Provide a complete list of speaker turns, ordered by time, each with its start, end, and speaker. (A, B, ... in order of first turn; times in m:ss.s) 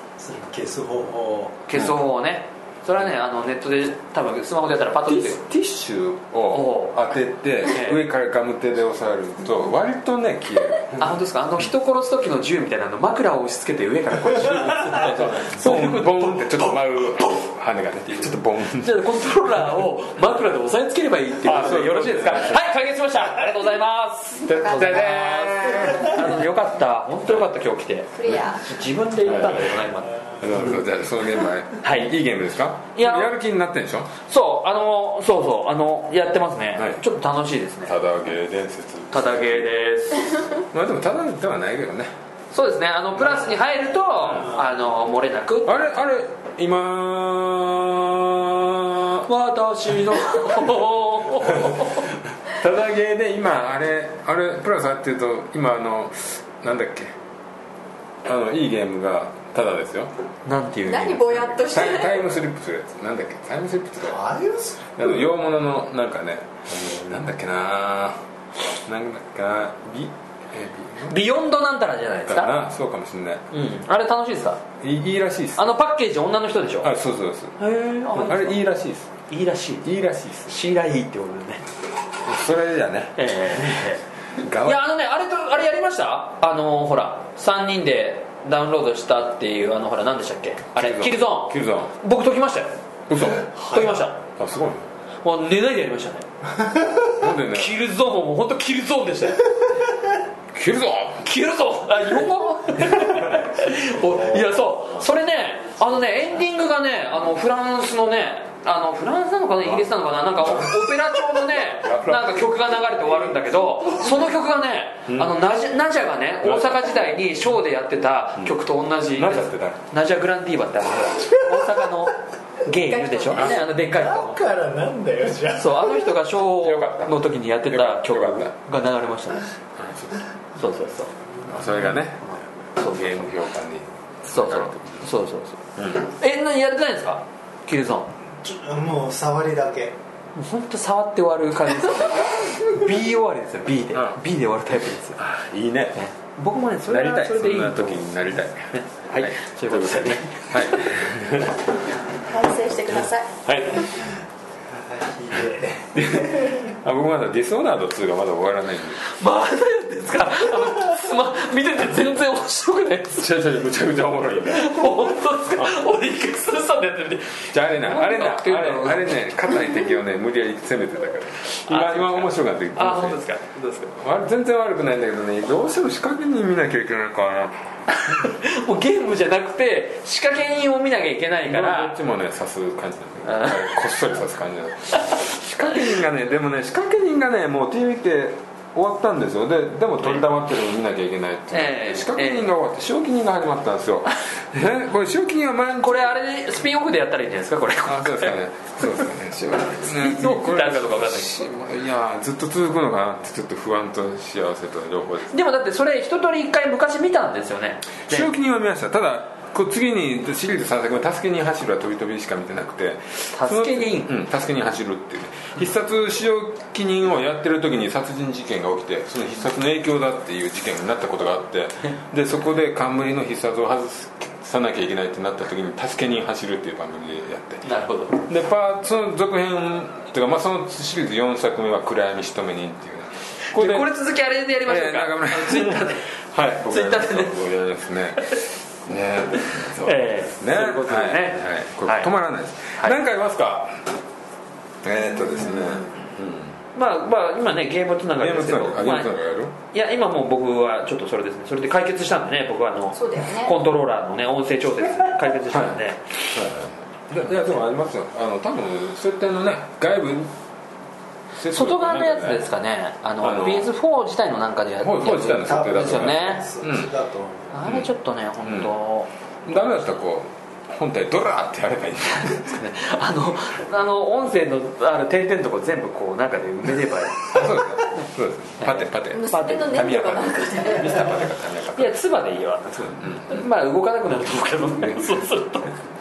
0:00.2-0:01.6 A
0:01.6-0:05.4 B
0:01.7-0:02.0 C
0:05.0-0:11.1 C
0:06.5-0:06.9 B
0:07.6-0:08.0 B
0:11.0-0:17.4 B
0:15.0-0:19.2 C
0:18.8-0:30.2 B
0:21.4-0:22.6 C
0:24.4-0:26.4 C
0:24.5-0:25.9 D
0:28.1-0:28.8 D
0:29.2-0:29.6 C
0:30.4-0:34.1 C
0:31.8-0:32.1 B
0:32.9-0:33.3 B
0:34.3-0:37.9 B
0:36.8-0:37.0 C
0:37.8-0:39.7 C
0:39.1-0:40.5 B
0:40.7-0:42.1 C
0:42.5-0:45.7 B
0:45.6-0:49.3 C
0:49.2-0:52.1 B
0:51.4-0:51.9 C
0:52.4-0:57.1 C
0:58.2-1:00.1 C
1:00.4-1:01.6 B
1:00.8-1:02.2 D
1:01.6-1:04.2 C
1:04.0-1:05.3 A
1:05.0-1:08.2 C
1:08.8-1:11.2 C
1:11.1-1:12.6 B
1:12.3-1:13.4 C
1:13.5-1:14.6 B
1:14.8-1:15.7 C
1:15.6-1:16.9 B
1:16.8-1:17.6 C
1:17.6-1:18.6 B
1:18.1-1:19.1 C
1:19.3-1:19.8 B
1:19.8-1:20.5 C
1:20.5-1:21.6 B
1:22.2-1:23.8 C
1:23.2-1:24.0 B
1:24.4-1:24.8 C
1:24.6-1:34.2 B
1:30.7-1:31.9 C
1:33.1-1:34.8 C
1:35.2-1:36.2 B
1:37.2-1:37.7 C
1:37.5-1:39.5 B
1:40.5-1:41.2 C
1:41.2-2:04.4 B
1:50.4-1:50.8 C
1:51.7-1:52.6 C
1:55.1-1:55.3 C
1:56.4-1:56.9 C
1:59.1-1:59.8 C
2:02.7-2:03.6 D
2:03.3-2:03.6 C
2:03.4-2:06.1 A
2:05.6-2:09.5 B
2:06.6-2:08.5 C
2:09.8-2:10.2 C
2:10.6-2:11.1 B
2:11.4-2:15.0 C
2:12.2-2:13.3 B
2:14.3-2:18.1 B
2:15.8-2:16.0 C
2:18.4-2:19.9 A
2:20.4-2:25.2 B
2:25.2-2:26.0 C
2:26.0-2:28.1 B
2:26.8-2:31.6 C
2:28.7-2:30.8 B
2:32.2-2:33.3 D
2:33.4-2:33.9 C
2:34.7-2:36.6 A
2:35.9-2:39.0 C
2:39.0-2:43.3 B
2:43.1-2:44.7 C
2:44.5-2:49.1 B
2:47.5-2:53.2 C
2:51.7-2:54.0 B
2:53.9-2:57.6 C
2:57.9-3:02.0 B
3:01.4-3:16.2 C
3:03.2-3:03.7 B
3:11.5-3:12.5 B
3:15.8-3:18.4 B
3:17.8-3:25.3 C
3:19.8-3:21.5 B
3:25.3-3:28.3 B
3:28.1-3:47.6 C
3:33.3-3:34.1 B
3:47.6-3:48.2 B
3:48.2-3:53.9 C
3:53.5-3:56.1 B
3:54.6-4:03.9 C
3:56.6-3:57.3 B
3:59.8-4:02.1 B
4:02.7-4:03.0 B
4:04.8-4:06.5 C
4:05.2-4:05.9 D
4:06.7-4:16.3 B
4:08.2-4:09.5 C
4:12.9-4:13.5 D
4:15.5-4:15.8 C
4:16.3-4:20.3 C
4:21.3-4:22.5 C
4:21.5-4:26.4 B
4:23.2-4:23.7 C
4:24.8-4:26.9 C
4:25.2-4:27.6 A
4:27.5-4:29.1 B
4:28.4-4:28.7 C
4:29.4-4:32.6 C
4:32.5-4:38.1 B
4:37.3-4:42.0 C
4:38.6-4:39.9 B
4:39.1-4:41.3 D
4:41.7-4:45.8 B
4:42.9-4:43.4 C
4:44.8-4:45.1 C